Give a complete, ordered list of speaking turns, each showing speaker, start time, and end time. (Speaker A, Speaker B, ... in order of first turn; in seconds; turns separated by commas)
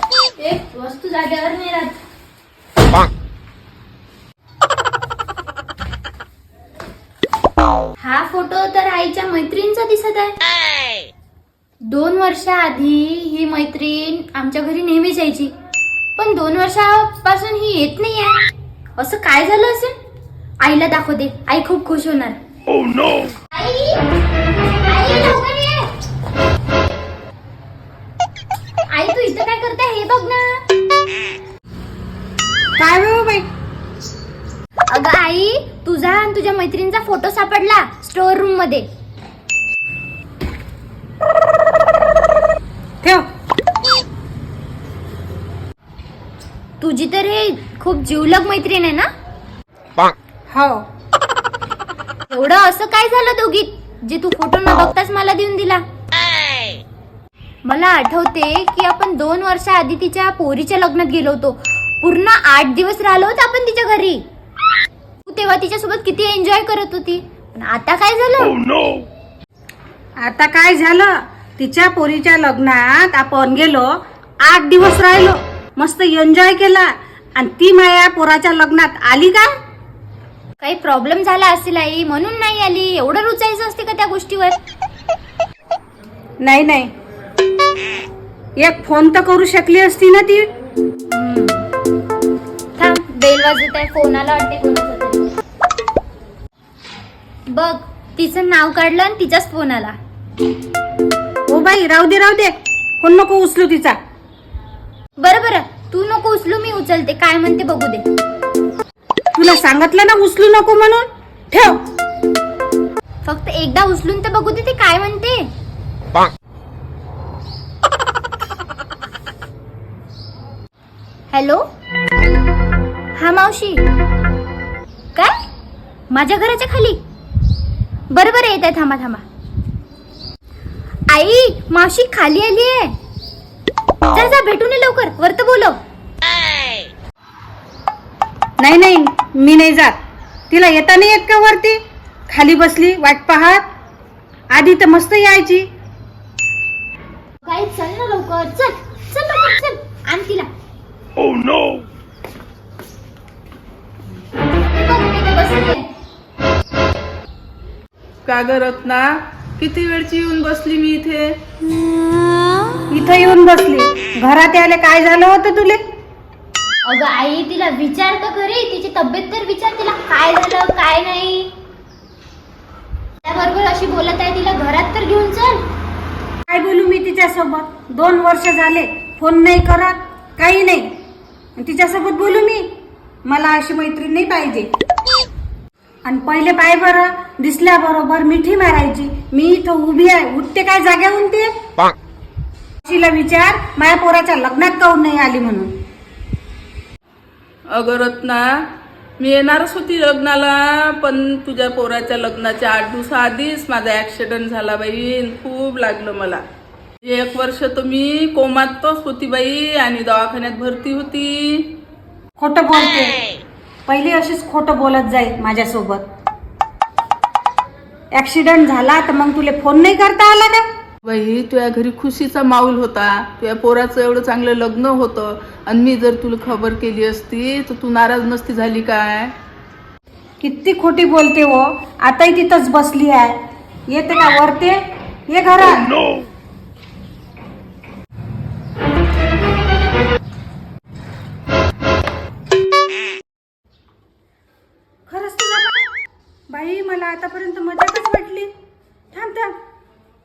Speaker A: 0.4-1.9, Speaker A: 8.0-10.3, Speaker A: 11.8-15.5, Speaker A: 16.2-18.4, Speaker A: 19.0-20.0, Speaker A: 20.6-22.4, Speaker A: 23.5-24.0, Speaker A: 24.9-25.9, Speaker A: 28.9-30.6, Speaker B: 32.8-33.5, Speaker A: 34.9-38.9, Speaker A: 46.8-49.1, Speaker B: 50.5-50.9, Speaker A: 52.3-55.8, Speaker A: 57.6-64.2, Speaker A: 65.2-68.6, Speaker B: 70.2-79.5, Speaker A: 80.6-84.6, Speaker B: 86.4-86.9, Speaker B: 88.6-90.5, Speaker A: 91.1-91.7, Speaker A: 92.8-95.3, Speaker A: 97.5-100.0, Speaker B: 101.5-104.0, Speaker A: 105.2-108.0, Speaker B: 109.3-111.8, Speaker A: 113.2-115.5, Speaker A: 121.3-121.6, Speaker A: 123.2-123.8, Speaker A: 126.1-127.0, Speaker A: 128.1-129.2, Speaker A: 131.1-132.9, Speaker A: 134.1-135.8, Speaker B: 138.6-140.0, Speaker B: 140.5-143.7, Speaker B: 144.5-145.7, Speaker A: 147.4-150.5, Speaker A: 154.7-155.9, Speaker C: 158.3-161.3, Speaker B: 162.9-165.8, Speaker A: 166.8-171.5, Speaker A: 173.2-175.6, Speaker B: 176.5-181.0, Speaker B: 181.6-182.7, Speaker B: 183.2-184.7, Speaker B: 186.1-191.7, Speaker B: 192.8-195.8, Speaker C: 197.7-198.5, Speaker C: 199.2-206.4, Speaker C: 207.0-211.7, Speaker B: 212.4-213.3, Speaker B: 213.9-216.1, Speaker B: 218.1-220.7, Speaker C: 221.0-229.3, Speaker B: 230.4-236.1, Speaker B: 245.1-245.9, Speaker B: 246.5-248.5, Speaker B: 249.1-249.6